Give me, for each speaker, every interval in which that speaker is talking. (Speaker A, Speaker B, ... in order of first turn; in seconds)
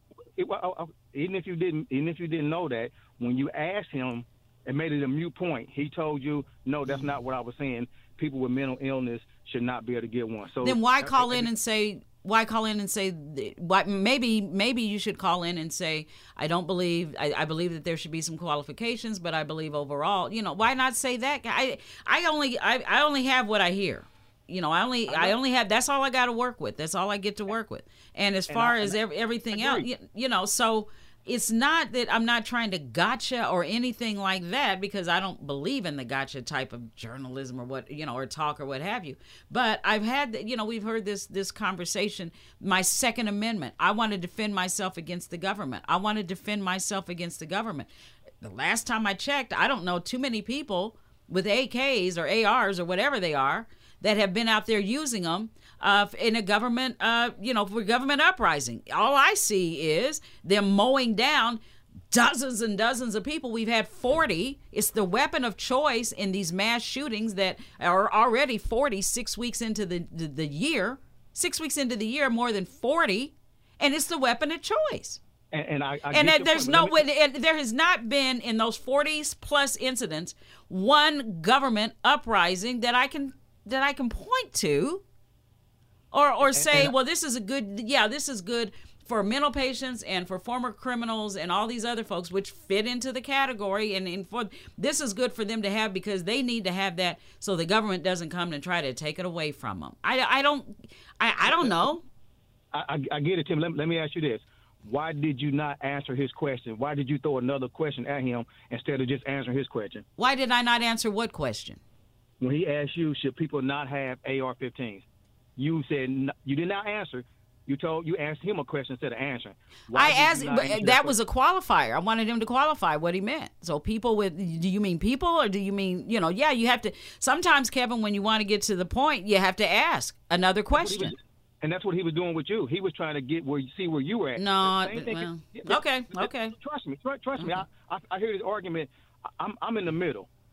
Speaker A: 0.4-11.5, 25.1-25.4, 28.5-29.0, 29.5-29.8, 75.5-77.0, 86.5-86.9, 101.4-101.8, 102.7-110.0, 112.4-115.0, 115.6-121.1, 130.7-140.3
Speaker B: 10.6-47.9, 48.4-75.2, 76.1-85.0, 86.1-102.0, 110.2-111.8, 119.9-131.2, 134.4-136.6, 137.4-137.6